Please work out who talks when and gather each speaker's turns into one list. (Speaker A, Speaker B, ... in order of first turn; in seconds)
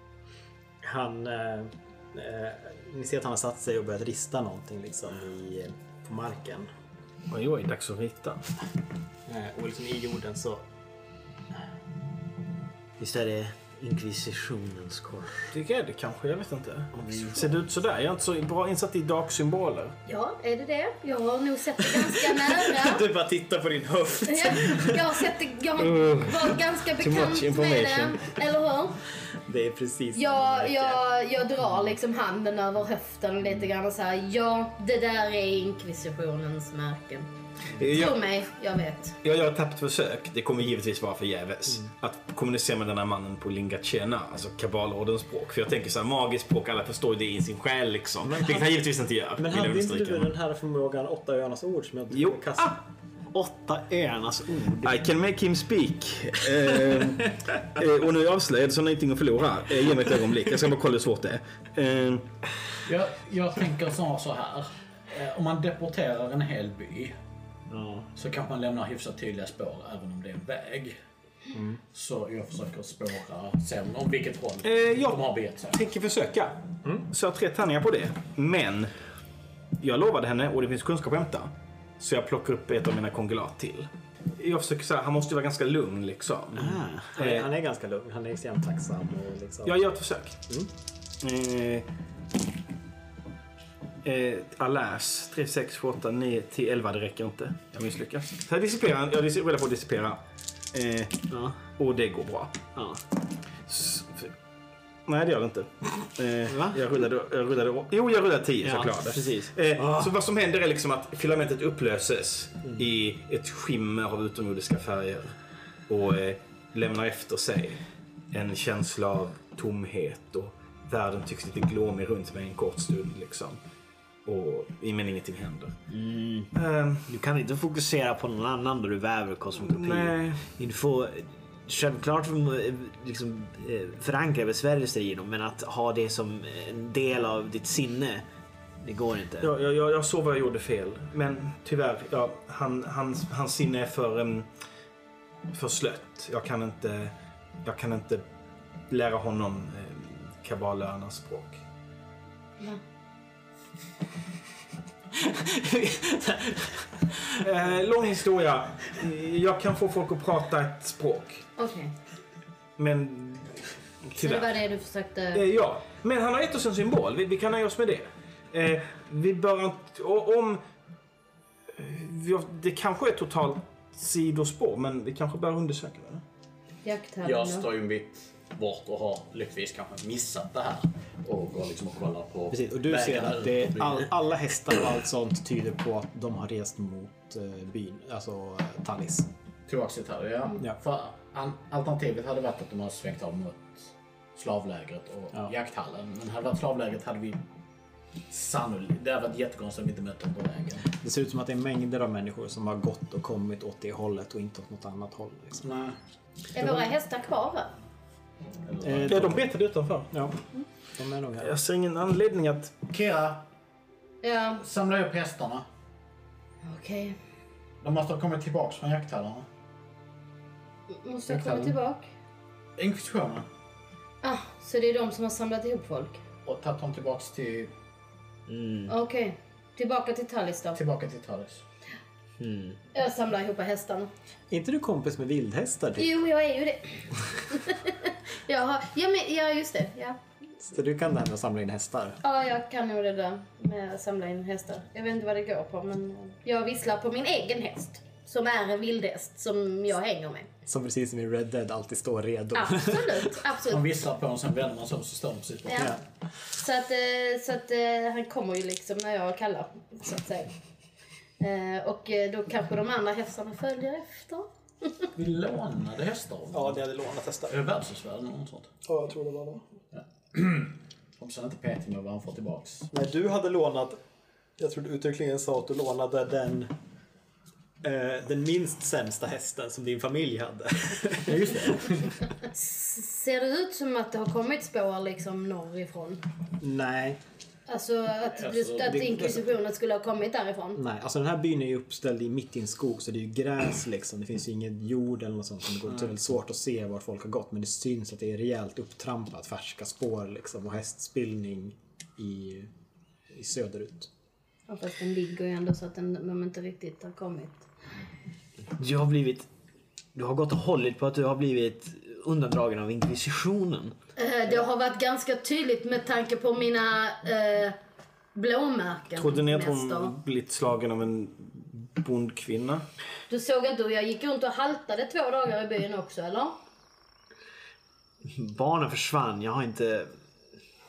Speaker A: 0.8-6.7, 9.3-10.7, 22.6-25.2, 29.5-31.0, 48.2-48.7, 49.4-52.8, 71.5-71.8, 87.1-89.8, 155.2-157.1, 182.5-189.3, 200.9-205.7, 208.8-209.4, 210.1-210.4, 210.9-211.5, 234.5-236.1, 240.6-242.2, 250.7-253.3, 266.5-267.6, 268.9-269.6, 272.9-274.0, 274.6-276.7, 277.8-281.8, 286.6-287.2, 288.9-289.4, 290.8-302.7, 303.3-304.1
Speaker B: 7.3-8.5, 15.5-19.9, 25.8-28.3, 37.8-38.2, 39.2-50.3, 52.1-52.7, 54.8-62.3, 74.6-78.9, 79.8-87.5, 89.7-90.4, 91.2-91.9, 94.0-100.2, 100.7-102.6, 103.7-104.3, 105.1-115.3, 115.9-117.8, 118.3-123.6, 124.3-125.8, 126.5-127.1, 129.6-130.5, 139.4-144.5, 145.5-148.2, 148.9-151.6, 157.4-161.5, 162.8-164.6, 165.3-170.6, 171.7-176.2, 209.1-210.1, 211.4-212.8, 319.2-322.9
Speaker C: 13.0-15.5, 16.9-17.5, 53.3-55.0, 67.7-68.1, 86.5-87.1, 101.3-101.6, 102.8-103.0, 106.5-106.8, 108.6-110.1, 125.9-126.5, 127.1-138.2, 138.8-139.5, 228.5-228.9, 232.4-232.8, 308.8-309.5, 310.1-313.9, 328.2-330.1
Speaker D: 20.1-23.0, 24.3-29.0, 30.1-37.3, 37.8-39.2, 161.6-161.9, 164.2-165.4, 176.8-177.7, 206.5-207.7, 214.2-214.6, 216.7-217.2, 221.0-222.1, 224.2-226.2, 228.9-230.8, 232.9-234.1, 236.0-240.2, 242.2-250.5, 252.5-253.8, 255.7-255.9, 256.6-260.5, 261.4-265.1, 282.5-286.2, 287.7-290.8, 304.7-307.7, 314.2-317.8, 318.4-320.1, 323.3-326.6
Speaker E: 62.9-67.2, 68.2-71.0, 71.9-75.8, 177.2-184.1, 189.7-197.4, 198.3-200.8, 205.6-206.0, 208.7-209.2, 212.9-213.4, 214.6-215.7, 217.8-219.5, 221.3-221.8, 222.8-223.5, 226.4-227.7, 230.7-231.6, 253.7-256.0, 265.1-266.8, 267.5-268.7, 269.9-272.9, 281.2-282.1, 288.4-289.0